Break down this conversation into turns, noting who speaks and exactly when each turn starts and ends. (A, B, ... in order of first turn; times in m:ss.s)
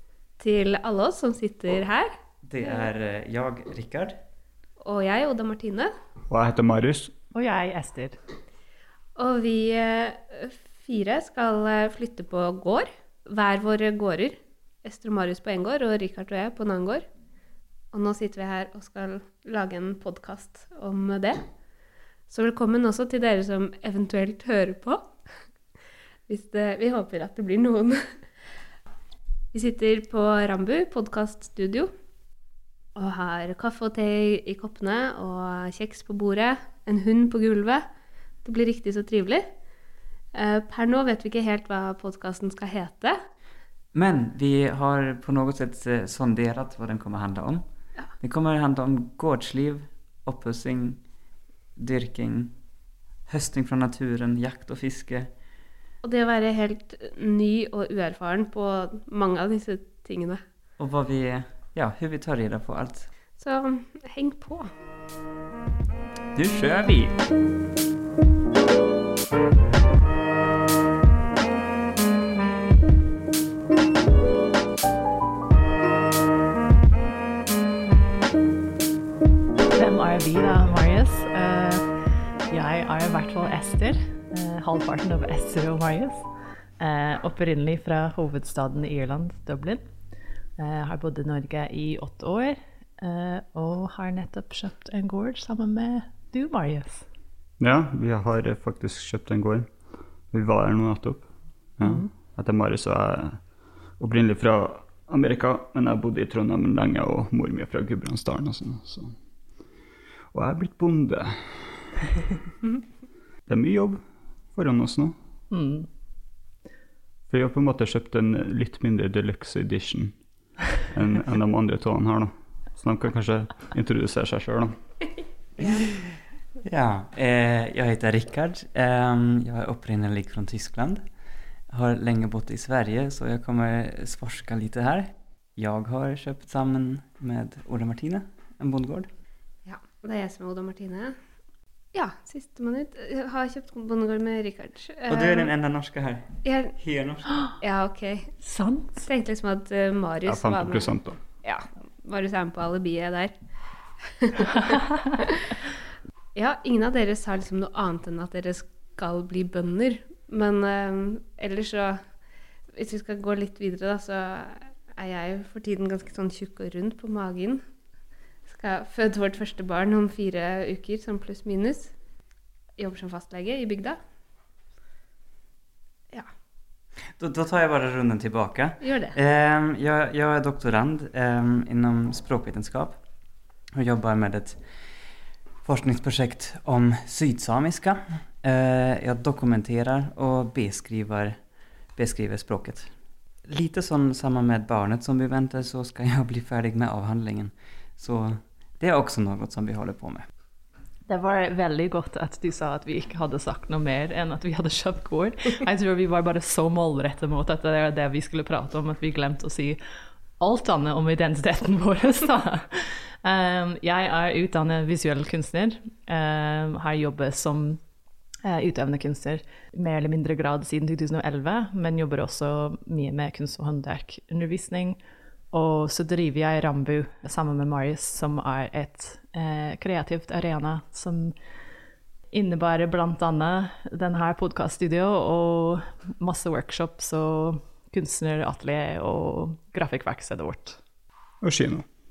0:00.4-0:02.8 A
0:02.4-0:04.1 B
0:04.8-0:05.9 A
0:06.3-0:07.1 C
0:07.3-0:08.2 D
0:09.2-0:17.0 A
0:17.9-0:21.4 A
0:22.3-0:25.1 A
0:26.3-0:28.2 A
0:29.5-0:31.9 A
0:32.9-0:37.8 A
0:38.4-0:39.5 A
0:40.3-0:43.2 A
0:43.9-0:47.6 B
0:48.2-0:51.0 B
0:51.8-0:52.5 B
0:53.3-0:55.3 B
0:56.0-1:00.4 A
1:00.8-1:03.1 B
1:03.4-1:04.7 A
1:06.3-1:07.2 B
1:19.7-1:29.8 D
1:30.6-1:37.0 D
1:37.6-1:39.7 C
1:40.3-1:43.4 C
1:41.8-1:42.1 D
1:44.0-1:49.1 C
1:50.3-1:51.9 C
1:53.5-1:54.0 C
1:54.5-1:55.1 C
1:55.5-1:55.9 D
1:57.3-2:00.2 C
2:00.8-2:04.7 C
2:05.6-2:11.0 B
2:11.7-2:19.1 B
2:19.6-2:21.2 A
2:21.9-2:25.5 A
2:25.1-2:27.3 B
2:26.4-2:26.8 A
2:27.6-2:28.3 A
2:28.4-2:29.0 D
2:29.0-2:33.3 A
2:30.2-2:31.2 C
2:34.0-2:35.5 A
2:36.3-2:42.1 A
2:42.7-2:47.6 A
2:48.4-2:51.9 A
2:52.8-2:54.0 A
2:57.2-3:03.0 B
2:58.8-2:59.1 A
3:03.7-3:04.6 B
3:05.6-3:11.4 B
3:11.9-3:12.9 B
3:13.5-3:20.3 B
3:21.1-3:29.8 D
3:30.4-3:37.8 D
3:38.4-3:45.0 D
3:45.5-3:51.3 D
3:52.3-4:00.8 D
4:01.4-4:01.8 C